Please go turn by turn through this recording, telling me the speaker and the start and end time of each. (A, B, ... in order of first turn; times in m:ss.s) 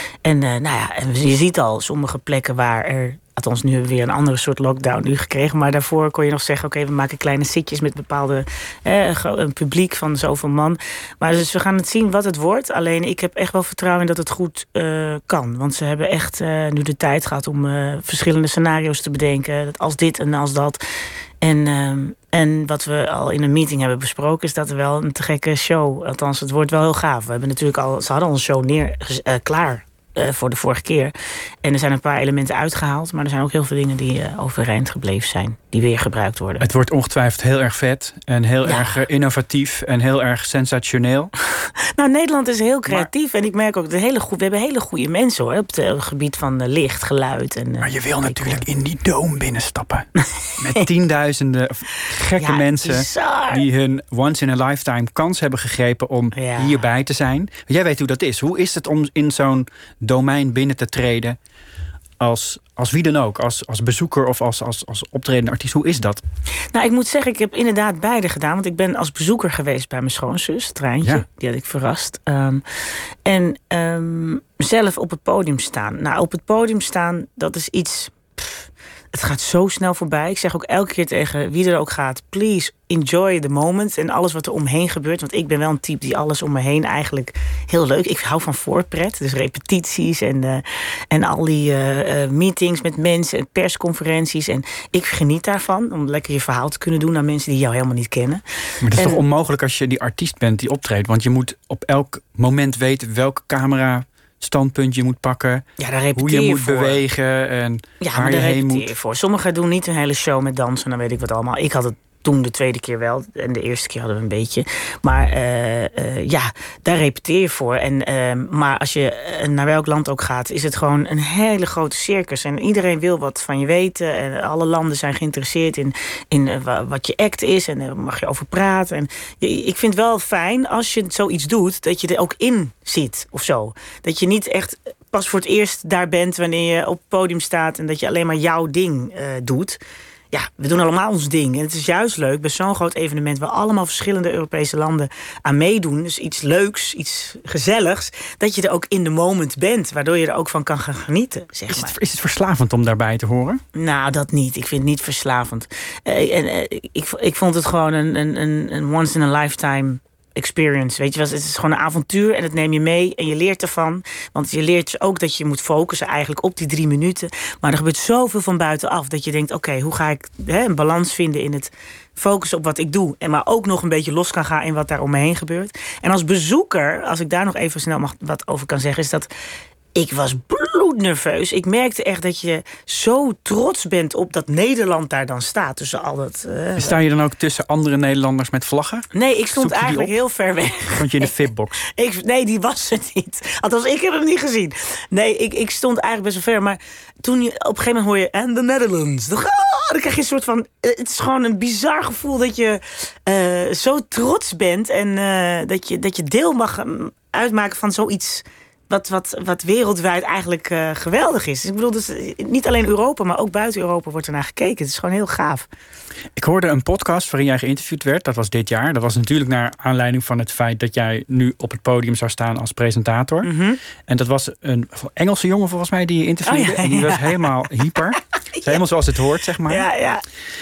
0:00.2-0:20.8 A
0:21.4-0:36.6 A
0:36.6-0:41.3 B
0:38.6-0:39.0 A
0:41.6-0:48.6 A
0:47.8-1:01.4 B
0:50.4-0:50.8 A
0:52.4-0:53.6 A
0:56.3-0:56.8 A
1:02.2-1:06.2 B
1:06.7-1:12.6 A
1:13.2-1:39.2 A
1:38.8-1:48.9 B
1:45.8-1:47.0 A
1:48.0-2:19.8 A
2:20.3-2:31.9 A
2:31.7-2:33.6 B
2:33.7-2:59.3 A
2:59.9-3:06.9 A
3:06.8-3:10.1 B
3:09.1-3:35.7 A
3:10.9-3:11.8 B
3:36.4-3:43.5 B
3:43.4-3:43.8 A
3:44.0-3:49.9 B
3:46.4-3:47.5 A
3:48.5-3:48.8 A
3:49.7-3:50.2 A